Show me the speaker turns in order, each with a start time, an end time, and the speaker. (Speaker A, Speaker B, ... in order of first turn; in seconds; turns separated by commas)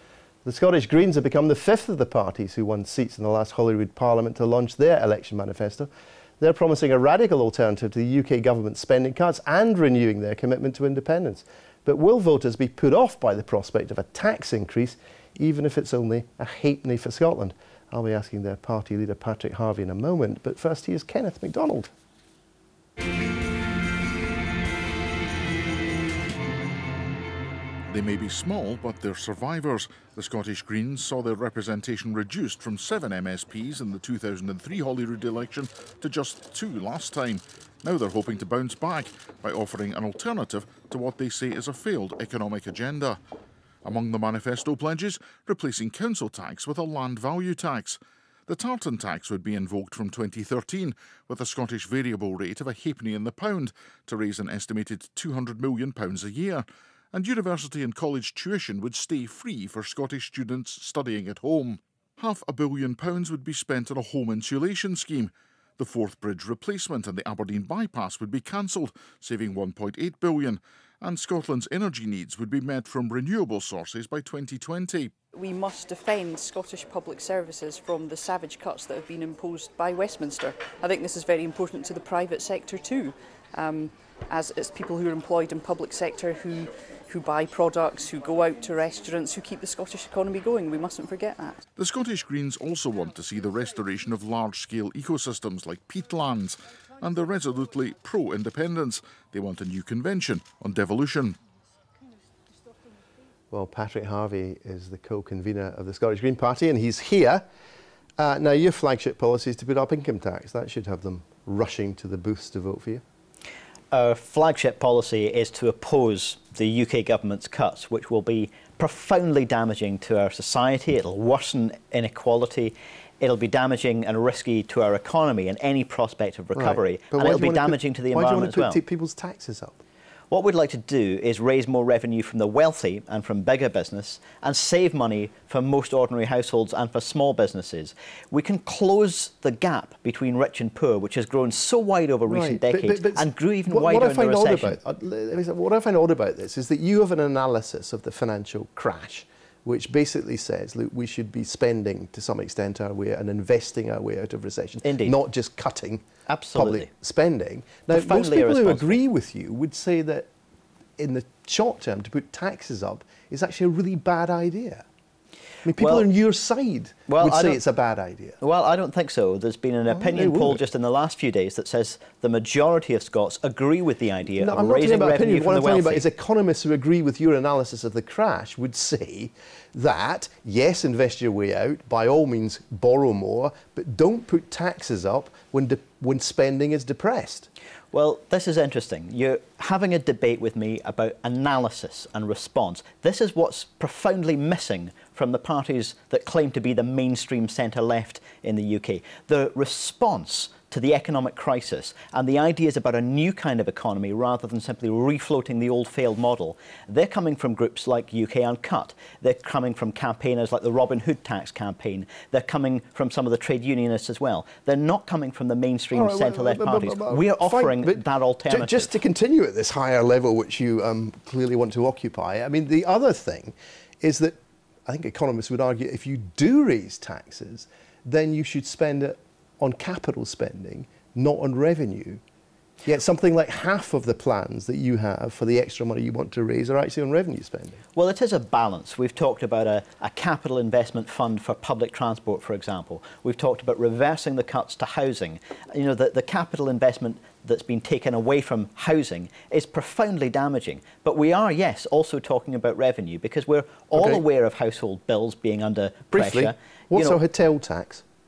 Speaker A: 0.4-5.9, Speaker A: 6.4-21.9, Speaker B: 27.9-43.2, Speaker B: 43.8-75.1, Speaker C: 75.3-91.6, Speaker B: 91.8-101.4, Speaker A: 103.5-107.4, Speaker A: 108.2-113.0, Speaker D: 113.9-128.8, Speaker A: 126.5-129.8, Speaker D: 130.3-144.8, Speaker A: 142.3-160.3, Speaker D: 154.8-155.2, Speaker D: 156.3-156.9, Speaker D: 157.9-159.0, Speaker A: 161.0-164.8, Speaker A: 165.6-168.4, Speaker D: 165.8-166.1, Speaker D: 167.1-167.6, Speaker D: 168.4-176.0, Speaker A: 169.9-170.6, Speaker A: 174.3-187.5, Speaker D: 187.9-219.0, Speaker A: 215.9-232.2, Speaker A: 232.8-237.8, Speaker D: 237.9-257.2, Speaker A: 253.9-254.2, Speaker A: 256.1-258.0